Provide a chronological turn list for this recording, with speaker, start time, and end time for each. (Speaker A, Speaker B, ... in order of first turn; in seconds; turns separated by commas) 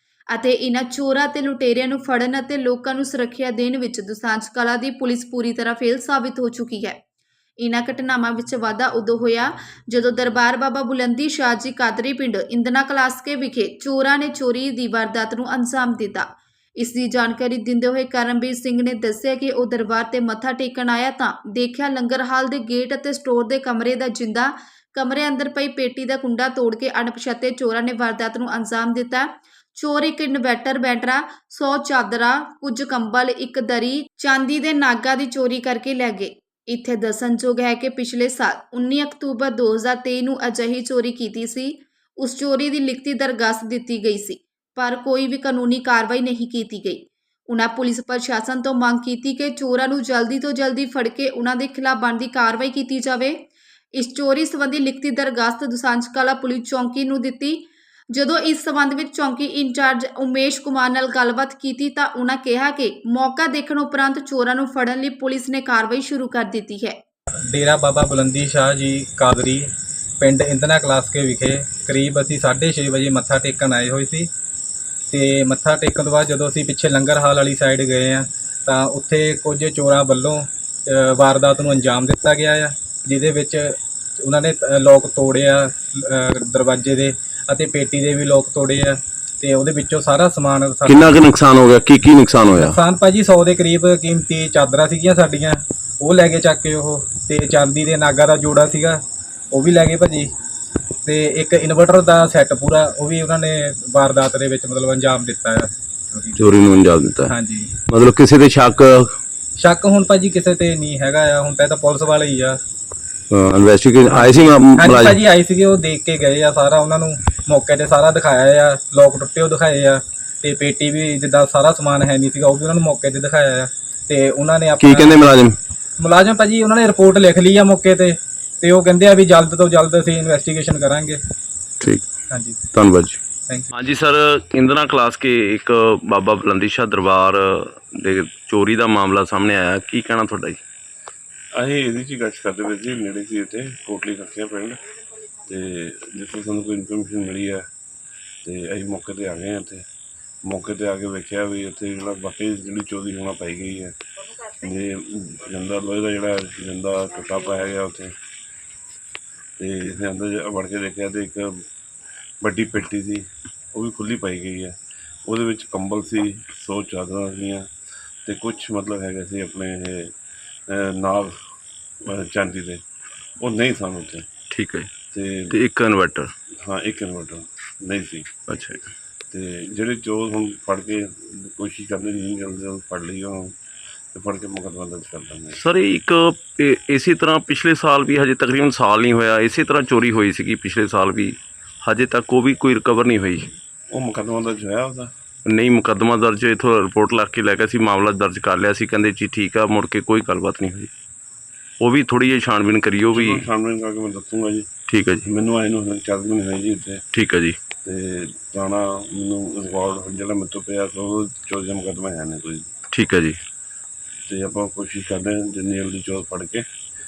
Speaker A: 0.3-7.0, Speaker A: 7.6-16.3, Speaker A: 16.8-53.4, Speaker A: 54.0-67.0, Speaker B: 67.5-69.7, Speaker B: 70.2-74.3, Speaker B: 75.1-91.2, Speaker C: 90.9-92.8, Speaker B: 92.6-99.0, Speaker B: 99.5-100.3, Speaker B: 101.0-106.4, Speaker C: 106.4-107.3, Speaker B: 107.3-107.7, Speaker C: 107.9-109.1, Speaker B: 109.6-112.6, Speaker C: 113.3-115.2, Speaker B: 114.1-125.3, Speaker C: 124.8-125.6, Speaker B: 126.0-131.2, Speaker B: 132.3-132.6, Speaker C: 132.7-133.2, Speaker C: 133.7-140.6, Speaker D: 141.6-144.8, Speaker D: 145.4-147.7, Speaker D: 148.4-149.9, Speaker D: 150.4-154.0, Speaker D: 154.6-158.2, Speaker D: 159.6-161.7, Speaker D: 162.4-164.8, Speaker D: 165.3-167.7, Speaker D: 168.2-170.1, Speaker D: 170.7-171.4, Speaker D: 172.0-172.8, Speaker D: 173.4-174.3, Speaker C: 174.5-174.9, Speaker D: 175.1-175.6, Speaker C: 175.5-176.3, Speaker D: 176.6-178.4, Speaker C: 178.5-178.8, Speaker D: 179.3-183.6, Speaker D: 184.1-185.6, Speaker C: 185.6-193.5, Speaker D: 193.9-195.1, Speaker C: 195.5-200.9, Speaker C: 201.8-203.5, Speaker D: 203.1-204.7, Speaker C: 204.9-205.3, Speaker D: 205.2-207.1, Speaker C: 207.1-207.6, Speaker D: 207.8-212.7, Speaker C: 212.9-213.4, Speaker D: 214.3-216.7